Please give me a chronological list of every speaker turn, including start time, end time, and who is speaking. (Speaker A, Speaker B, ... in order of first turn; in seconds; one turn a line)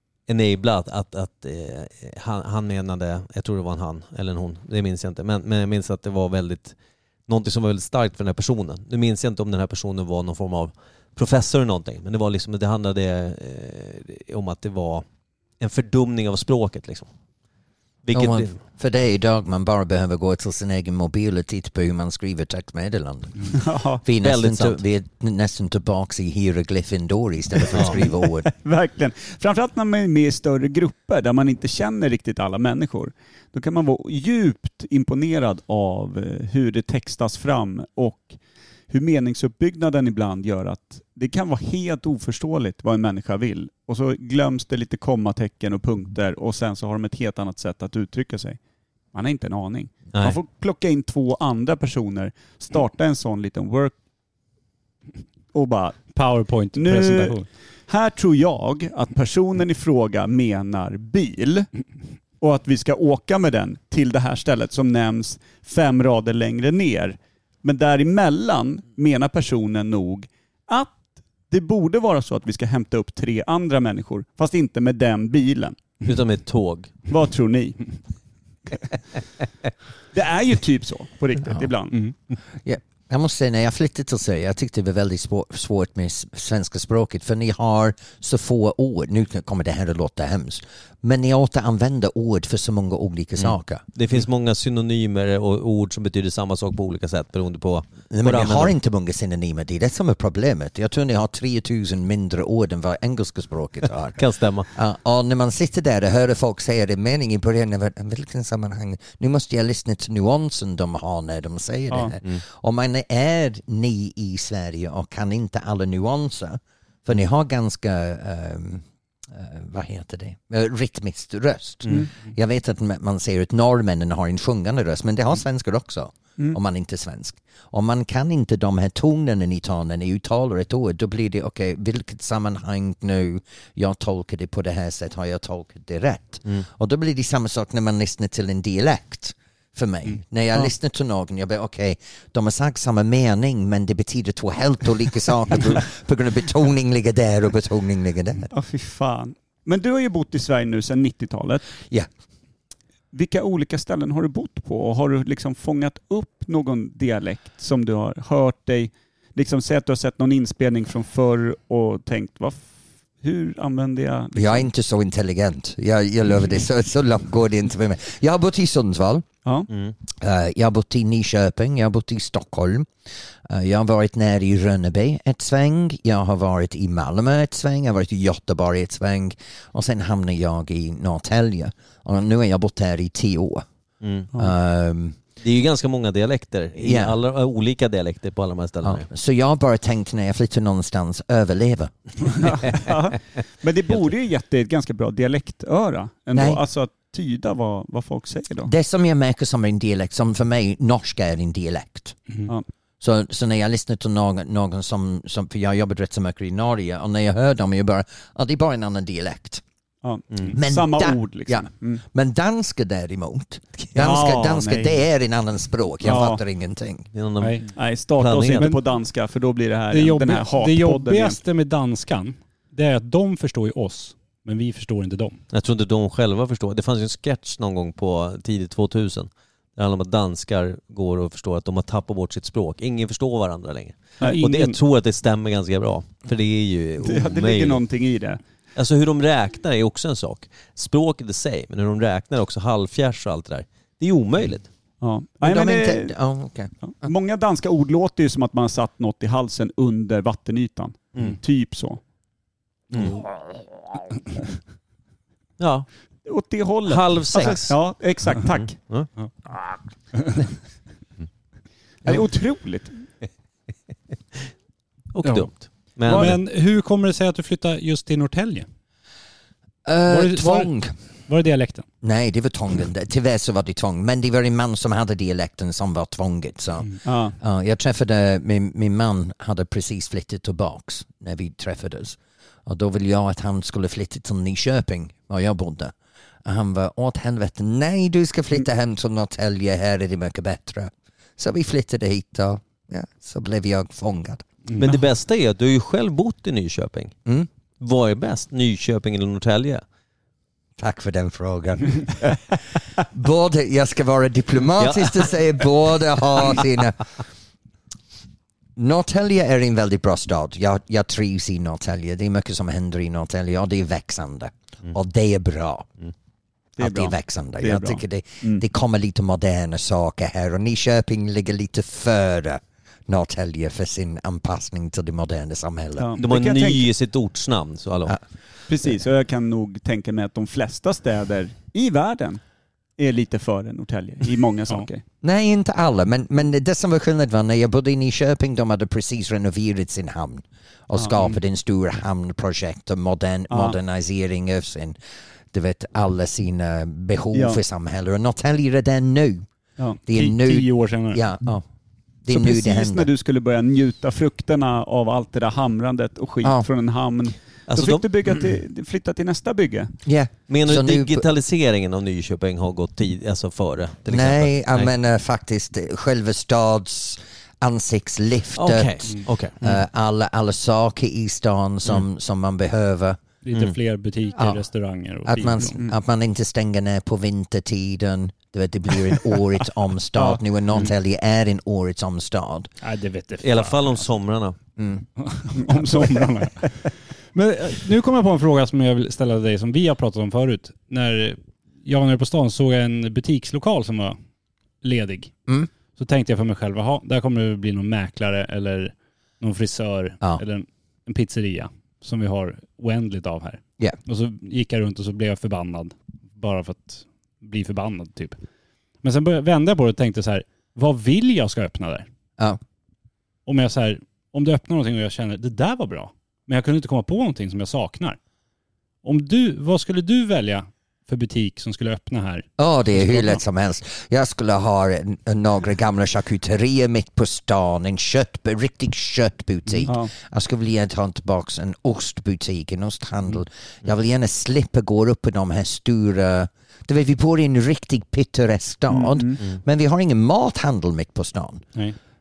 Speaker A: 0.3-6.8
Speaker A: 7.3-15.1
Speaker A: 15.6-17.1
Speaker A: 18.1-18.6
Speaker B: 18.1-28.5
Speaker C: 23.5-24.0
Speaker A: 24.2-24.8
Speaker C: 27.8-38.4
Speaker C: 38.9-48.6
Speaker C: 49.1-54.0
Speaker C: 55.5-56.1
Speaker D: 56.1-57.5
Speaker C: 56.7-61.7
Speaker C: 62.4-75.8
Speaker A: 76.0-76.9
Speaker C: 77.1-77.9
Speaker C: 80.1-82.0
Speaker B: 82.6-93.8
Speaker A: 93.4-98.8
Speaker B: 98.1-148.5
Speaker A: 104.2-104.7
Speaker C: 148.5-151.7
Speaker C: 153.1-162.7
Speaker C: 163.2-164.7
Speaker B: 164.3-169.2
Speaker A: 169.7-169.9
Speaker B: 170.2-172.9
Speaker B: 173.5-183.6
Speaker A: 184.0-184.3
Speaker B: 184.3-185.2
Speaker A: 185.4-189.1
Speaker B: 186.8-187.2
Speaker B: 188.8-192.5
Speaker C: 192.4-198.7
Speaker B: 196.3-196.6
Speaker B: 198.7-202.2
Speaker B: 203.0-209.6
Speaker C: 210.0-212.0
Speaker B: 210.5-217.1
Speaker C: 213.9-215.0
Speaker C: 216.0-216.4
Speaker A: 217.1-218.8
Speaker D: 217.4-217.7
Speaker C: 217.8-221.4
Speaker D: 219.9-225.4
Speaker A: 225.5-237.8
Speaker D: 234.2-234.8
Speaker C: 237.0-238.4
Speaker A: 238.8-244.7
Speaker C: 245.0-246.1
Speaker B: 245.4-247.1
Speaker C: 246.8-252.0
Speaker A: 255.6-255.9
Speaker C: 256.3-258.8
Speaker A: 256.9-257.8
Speaker A: 258.4-259.1
Speaker C: 262.0-262.9
Speaker A: 265.1-266.4
Speaker D: 265.2-265.5
Speaker D: 266.1-268.7
Speaker C: 266.1-266.4
Speaker B: 269.9-270.9
Speaker D: 270.1-270.7
Speaker D: 271.3-271.9
Speaker B: 272.0-285.9
Speaker C: 277.1-277.4
Speaker B: 286.4-294.4
Speaker D: 294.7-294.9
Speaker A: 294.8-297.1
Speaker A: 297.8-299.8
Speaker B: 300.8-307.1
Speaker A: 304.8-305.3
Speaker B: 308.8-315.9
Speaker C: 316.8-318.6
Speaker B: 316.8-326.1
Speaker C: 326.0-326.9
Speaker A: 326.2-328.2
Speaker C: 328.7-332.4
Speaker C: 333.0-335.0
Speaker B: 335.2-345.0
Speaker C: 343.5-343.8
Speaker B: 345.5-349.5
Speaker C: 347.3-347.6
Speaker B: 350.0-351.6
Speaker D: 350.1-351.2
Speaker B: 352.2-353.1
Speaker C: 352.3-359.9
Speaker A: 357.7-358.0
Speaker B: 360.1-361.3
Speaker A: 360.5-364.9
Speaker B: 364.1-369.1
Speaker A: 368.6-369.6
Speaker B: 369.6-373.2
Speaker D: 373.4-375.8
Speaker B: 374.4-374.6
Speaker B: 375.2-382.7
Speaker D: 382.8-384.1
Speaker A: 383.4-384.6
Speaker B: 384.8-385.1
Speaker D: 385.2-386.7
Speaker C: 385.6-386.7
Speaker D: 387.3-394.2
Speaker D: 394.8-395.3
Speaker D: 396.0-408.4
Speaker D: 409.0-412.1
Speaker D: 413.5-418.2
Speaker D: 419.0-423.4
Speaker B: 422.6-441.7
Speaker C: 438.9-439.4